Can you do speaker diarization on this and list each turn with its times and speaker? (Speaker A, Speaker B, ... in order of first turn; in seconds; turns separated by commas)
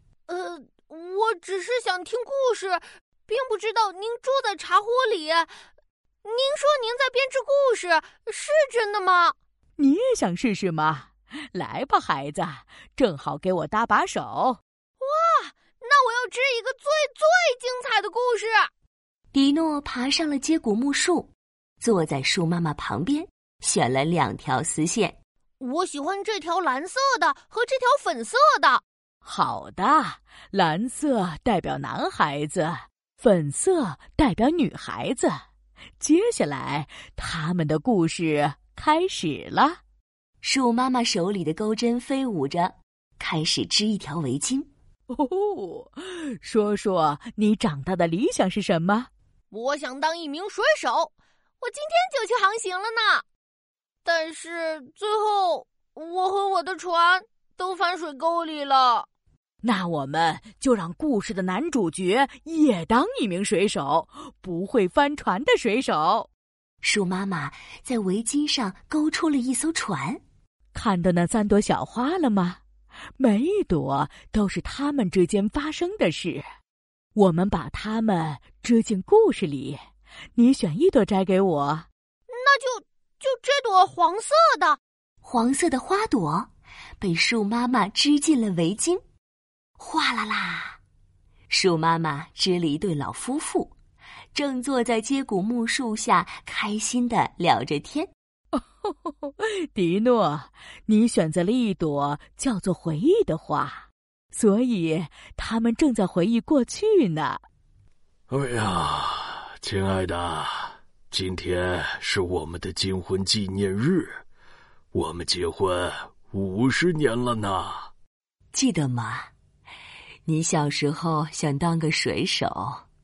Speaker A: 0.3-5.5, Speaker A: 6.2-9.3, Speaker B: 9.8-14.6, Speaker A: 15.0-18.7, Speaker C: 19.3-25.2, Speaker A: 25.6-28.8, Speaker B: 29.2-35.4, Speaker B: 36.0-39.8, Speaker C: 40.4-44.7, Speaker B: 45.1-49.1, Speaker A: 49.5-53.2, Speaker A: 54.0-59.1, Speaker B: 59.6-66.3, Speaker C: 66.8-70.2, Speaker B: 70.7-72.6, Speaker B: 73.2-76.4, Speaker B: 77.2-79.8, Speaker B: 80.4-81.9, Speaker A: 82.3-84.8, Speaker C: 85.2-86.5, Speaker C: 87.0-89.0, Speaker C: 89.8-90.8, Speaker C: 91.5-93.7, Speaker C: 94.3-98.1, Speaker B: 98.5-107.4, Speaker D: 108.3-114.2, Speaker D: 114.9-117.9, Speaker C: 118.5-119.3, Speaker C: 120.3-122.8